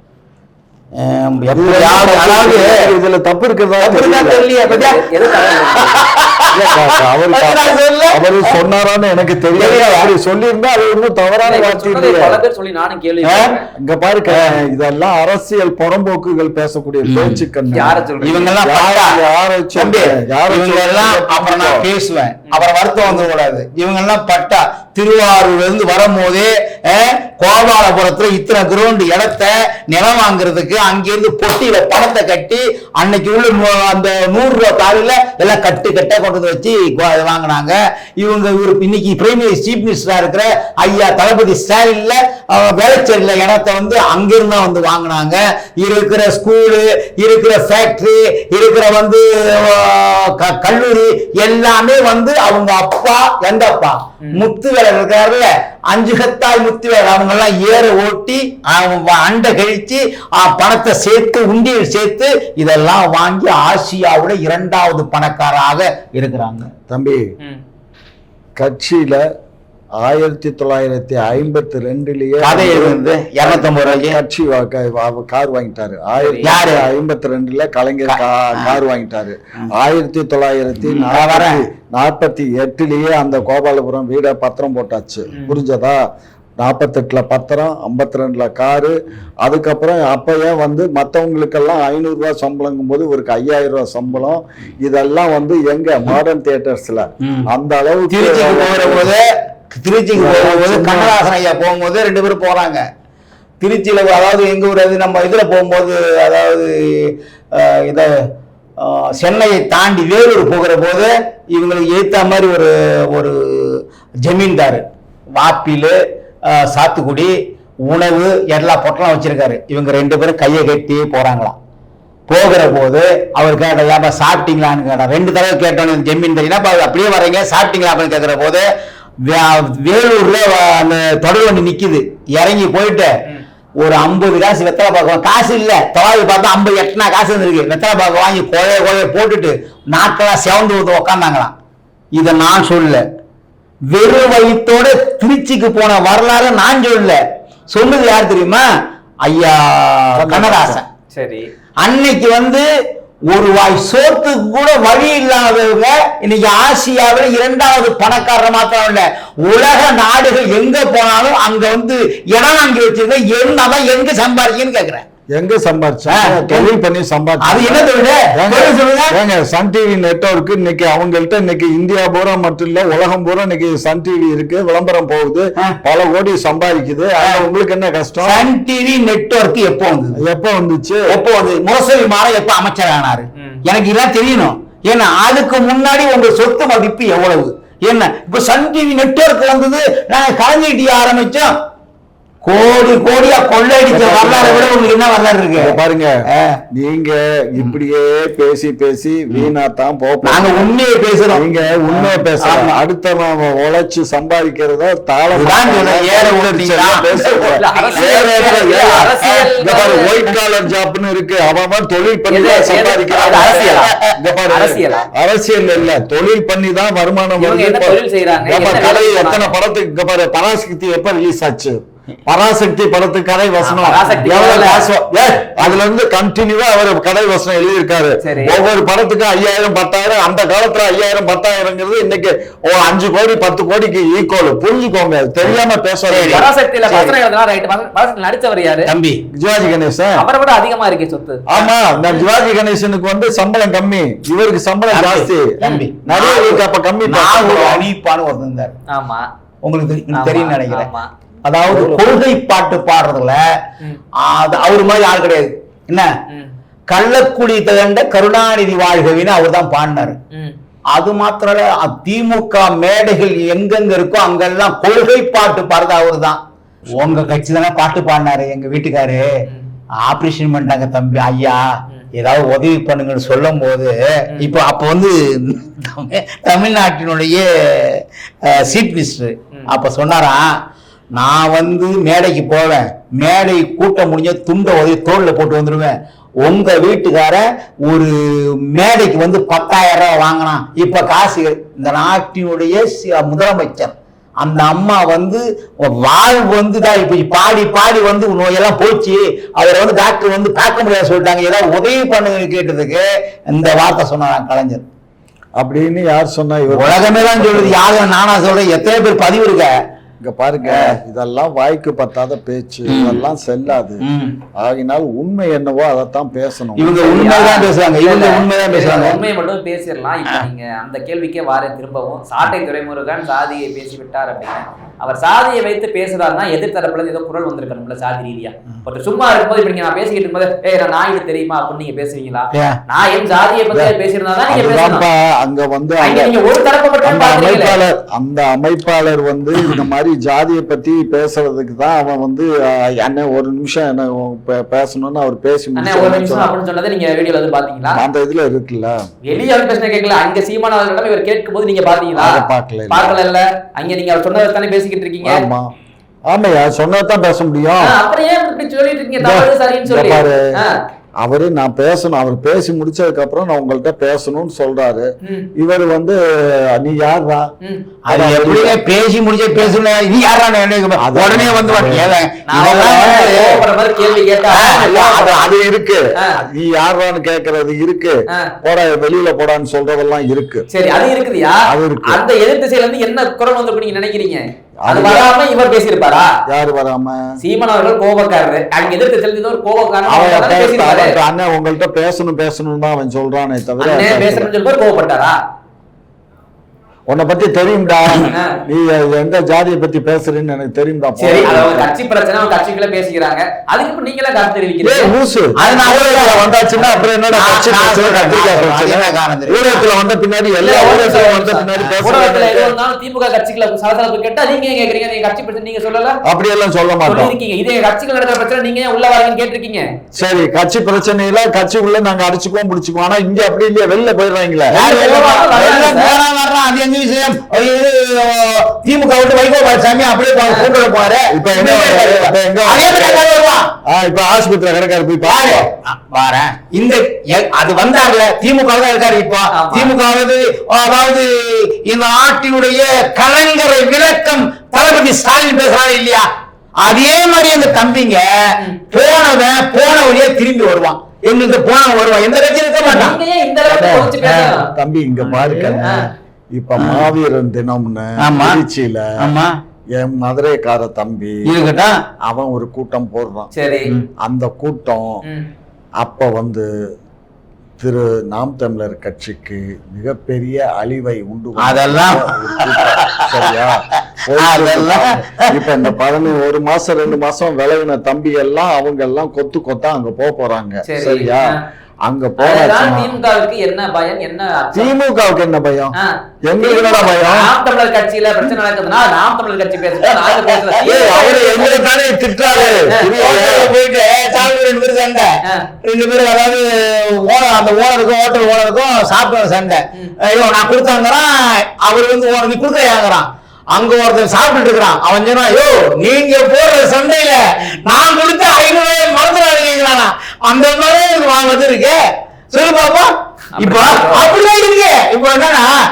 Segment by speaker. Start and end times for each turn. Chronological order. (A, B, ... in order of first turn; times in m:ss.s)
0:01.0-0:02.9 A
0:01.5-0:04.4 B
0:03.8-0:08.6 A
0:04.5-0:06.1 C
0:06.5-0:12.4 B
0:09.5-0:10.1 A
0:11.4-0:13.7 C
0:13.7-0:21.8 B
0:14.3-0:14.6 A
0:17.0-0:17.4 A
0:17.7-0:18.5 C
0:18.2-0:19.2 A
0:19.7-1:06.7 A
1:06.9-1:07.3 B
1:08.6-1:09.2 B
1:10.0-1:26.0 B
1:12.4-1:14.2 A
1:16.2-1:16.5 C
1:16.4-1:16.9 A
1:18.1-1:18.8 A
1:20.9-1:21.6 A
1:25.3-1:25.6 C
1:26.6-1:39.1 B
1:37.2-1:37.5 A
1:38.1-1:42.8 A
1:40.2-1:41.2 B
1:43.6-1:48.2 A
1:48.8-1:54.8 A
1:55.4-1:57.3 A
1:57.9-2:01.5 A
2:02.3-2:08.6 A
2:09.2-2:13.1 A
2:13.8-2:21.5 A
2:22.1-2:23.0 A
2:23.9-2:28.6 A
2:29.2-2:30.8 A
2:30.2-2:30.8 B
2:31.1-2:31.4 C
2:31.8-2:32.6 A
2:33.3-2:45.0 A
2:45.3-2:58.4 B
2:46.1-2:46.7 A
2:47.4-2:49.2 A
2:58.2-3:00.2 A
3:00.2-3:01.1 B
3:01.1-3:11.5 A
3:03.4-3:03.6 C
3:12.4-3:16.6 A
3:13.9-3:14.7 B
3:15.6-3:16.2 B
3:16.7-3:20.7 B
3:20.2-3:22.7 A
3:21.3-3:56.5 B
3:25.3-3:28.3 A
3:27.6-3:30.1 C
3:32.3-3:34.0 C
3:33.3-3:34.1 A
3:34.5-3:35.0 C
3:37.4-3:39.5 C
3:43.6-3:44.8 C
3:48.2-3:48.6 C
3:56.1-3:57.1 A
3:56.3-3:58.9 C
3:58.9-3:59.2 A
3:59.3-4:00.2 B
4:00.2-4:01.4 C
4:01.5-4:07.8 B
4:04.9-4:08.8 A
4:08.9-4:09.3 C
4:09.6-4:10.9 A
4:10.1-4:11.1 C
4:11.4-4:13.4 A
4:11.6-4:12.0 B
4:14.2-4:16.1 A
4:16.9-4:20.2 A
4:20.3-4:20.6 C
4:20.9-4:26.4 A
4:26.9-4:29.4 A
4:30.0-4:40.5 A
4:41.2-5:04.8 A
5:05.6-5:07.8 B
5:06.7-5:09.7 A
5:10.2-5:17.1 B
5:10.7-5:11.0 A
5:12.9-5:13.2 A
5:14.0-5:14.4 A
5:16.8-5:19.2 A
5:17.0-5:35.0 C
5:34.5-5:36.3 B
5:36.0-5:37.8 C
5:37.0-5:46.5 B
5:45.8-5:48.0 C
5:47.9-5:49.0 B
5:49.2-5:55.4 C
5:52.2-5:53.1 B
5:55.2-5:55.7 B
5:56.3-5:58.0 B
5:57.8-6:00.8 C
5:59.2-6:00.5 B
6:01.2-6:07.5 B
6:05.2-6:05.5 C
6:08.1-6:13.6 A
6:08.1-6:08.8 B
6:11.0-6:13.3 B
6:12.5-6:15.4 C
6:14.5-6:14.9 A
6:14.8-6:20.6 B
6:20.7-6:26.3 C
6:21.7-6:22.2 B
6:24.8-6:25.3 B
6:26.5-6:27.4 B
6:27.4-6:31.1 C
6:30.1-6:34.5 B
6:33.8-6:35.4 C
6:37.1-6:41.9 B
6:38.3-6:38.6 C
6:41.2-6:45.9 C
6:44.8-6:52.7 B
6:45.6-6:46.4 A
6:47.3-6:49.8 A
6:50.6-6:56.2 C
6:56.3-6:57.3 B
6:57.0-6:59.9 C
7:00.2-7:04.8 B
7:04.7-7:06.2 C
7:04.7-7:13.7 A
7:10.4-7:10.7 C
7:11.3-7:13.2 B
7:13.8-7:15.6 B
7:15.2-7:26.3 A
7:19.5-7:19.9 C
7:26.8-7:33.2 A
7:32.8-7:34.7 C
7:33.7-7:34.5 A
7:34.7-7:36.0 B
7:35.2-7:35.9 A
7:35.8-7:36.1 C
7:36.5-7:39.3 B
7:36.8-7:37.1 A
7:38.2-7:38.6 A
7:39.2-7:39.5 A
7:40.0-7:41.5 B
7:41.4-7:42.0 A
7:42.2-7:43.5 B
7:43.5-7:43.9 C
7:44.2-7:45.2 B
7:45.2-7:45.5 C
7:46.0-7:46.7 B
7:47.8-8:03.1 B
7:51.6-7:53.5 A
7:54.4-7:55.6 A
8:00.8-8:01.6 C
8:02.4-8:04.9 C
8:04.7-8:05.9 B
8:06.0-8:11.6 C
8:06.5-8:07.5 B
8:10.0-8:32.0 A
8:10.8-8:13.7 B
8:32.5-8:35.7 A
8:33.6-8:34.3 C